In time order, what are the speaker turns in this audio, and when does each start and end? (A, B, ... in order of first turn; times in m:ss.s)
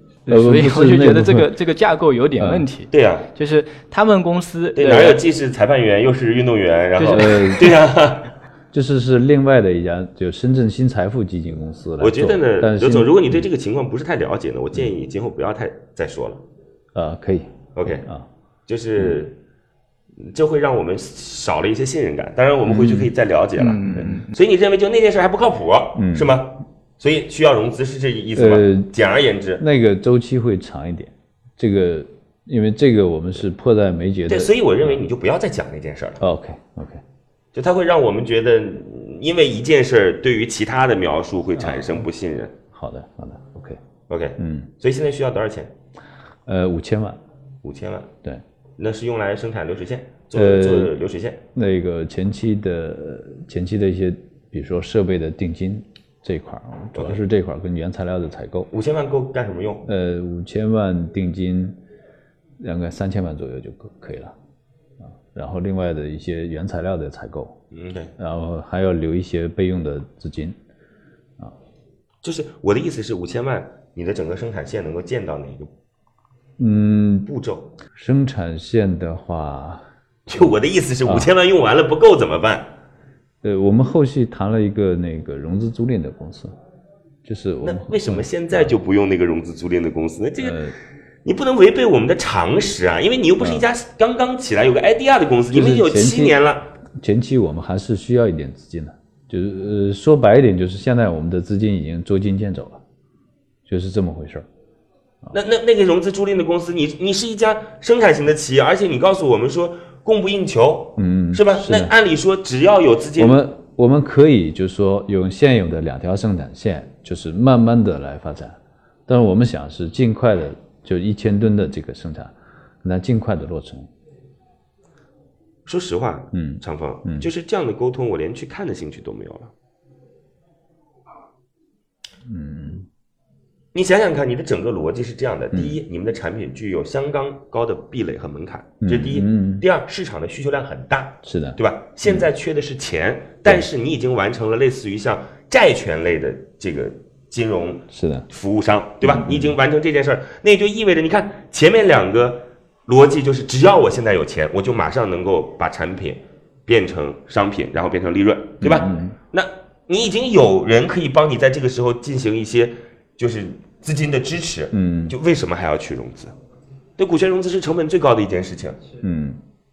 0:00.2-0:05.2 A
0:00.3-0:01.5 B
0:02.4-0:02.6 B
0:02.9-0:03.3 C
0:04.8-0:08.3 C
0:07.0-0:07.2 A
0:07.1-0:07.7 B
0:08.7-0:13.4 B
0:12.0-0:16.4 C
0:16.9-0:18.2 B
0:17.8-0:18.0 C
0:18.7-0:19.4 C
0:20.2-0:29.6 C
0:22.7-0:23.1 B
0:23.6-0:24.3 A
0:26.0-0:26.4 B
0:28.3-0:28.9 B
0:29.6-0:35.0 B
0:34.3-0:36.2 C
0:36.2-0:37.0 B
0:37.5-0:42.6 C
0:41.6-0:42.0 B
0:42.7-0:43.8 B
0:44.1-0:45.7 C
0:44.4-0:44.7 B
0:46.4-0:47.2 B
0:47.6-0:48.1 C
0:48.8-0:51.4 C
0:50.3-0:50.9 B
0:51.5-0:58.7 B
0:57.0-0:57.2 C
0:58.7-0:59.9 C
0:59.8-1:01.8 B
1:02.6-1:04.3 B
1:05.3-1:07.6 B
1:07.7-1:08.1 C
1:08.2-1:10.6 B
1:12.2-1:15.7 C
1:16.6-1:17.3 B
1:17.2-1:17.7 C
1:17.9-1:21.3 B
1:20.3-1:22.7 C
1:23.4-1:26.5 B
1:27.2-1:28.8 B
1:27.6-1:30.6 C
1:30.4-1:30.7 B
1:31.2-1:36.7 C
1:33.4-1:33.6 B
1:35.5-1:36.4 B
1:37.0-1:42.8 B
1:43.6-1:44.4 B
1:45.3-1:53.4 C
1:51.0-1:51.9 B
1:53.2-2:03.9 B
2:05.6-2:09.5 C
2:06.3-2:07.3 B
2:12.2-2:12.9 B
2:13.7-2:46.3 C
2:18.8-2:19.6 B
2:21.2-2:22.3 B
2:27.9-2:28.2 B
2:29.0-2:29.6 B
2:38.6-2:39.2 B
2:44.7-2:45.2 B
2:47.0-2:48.8 C
2:49.0-2:49.4 B